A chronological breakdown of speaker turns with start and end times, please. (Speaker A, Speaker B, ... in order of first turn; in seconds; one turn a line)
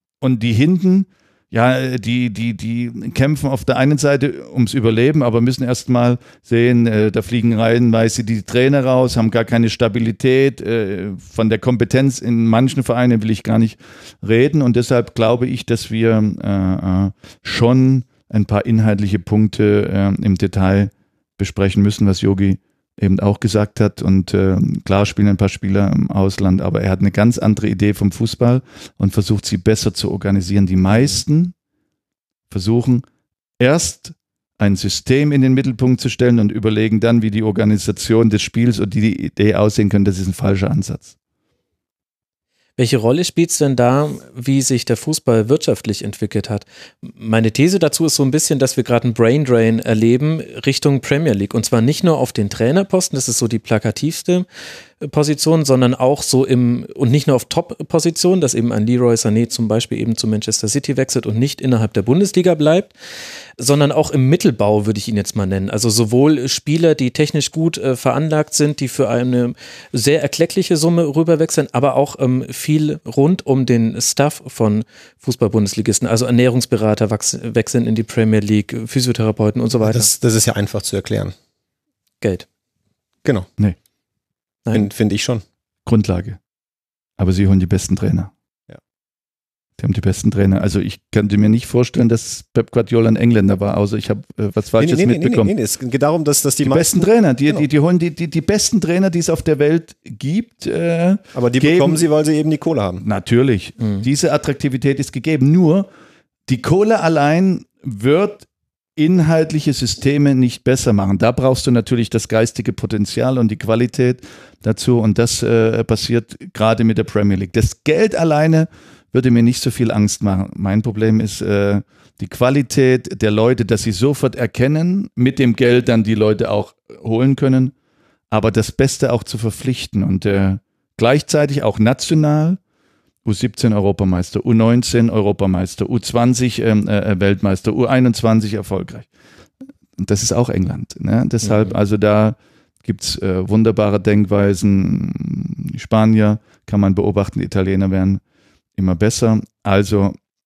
Speaker A: 0.2-31.5
Speaker A: 32.5-33.0
Speaker A: 33.6-41.1
Speaker B: 42.8-54.5
Speaker B: 55.0-62.9
Speaker B: 63.6-80.1
Speaker C: 79.8-81.3
Speaker B: 82.2-82.5
Speaker C: 84.7-85.4
Speaker A: 85.9-86.4
Speaker A: 87.2-88.3
Speaker A: 89.8-95.5
Speaker C: 94.8-97.7
Speaker A: 96.6-102.0
Speaker C: 101.3-103.0
Speaker A: 103.0-105.9
Speaker A: 106.5-108.5
Speaker A: 109.0-127.7
Speaker A: 128.3-132.6
Speaker A: 133.2-139.1
Speaker A: 140.0-148.2
Speaker B: 141.4-141.8
Speaker A: 148.8-150.2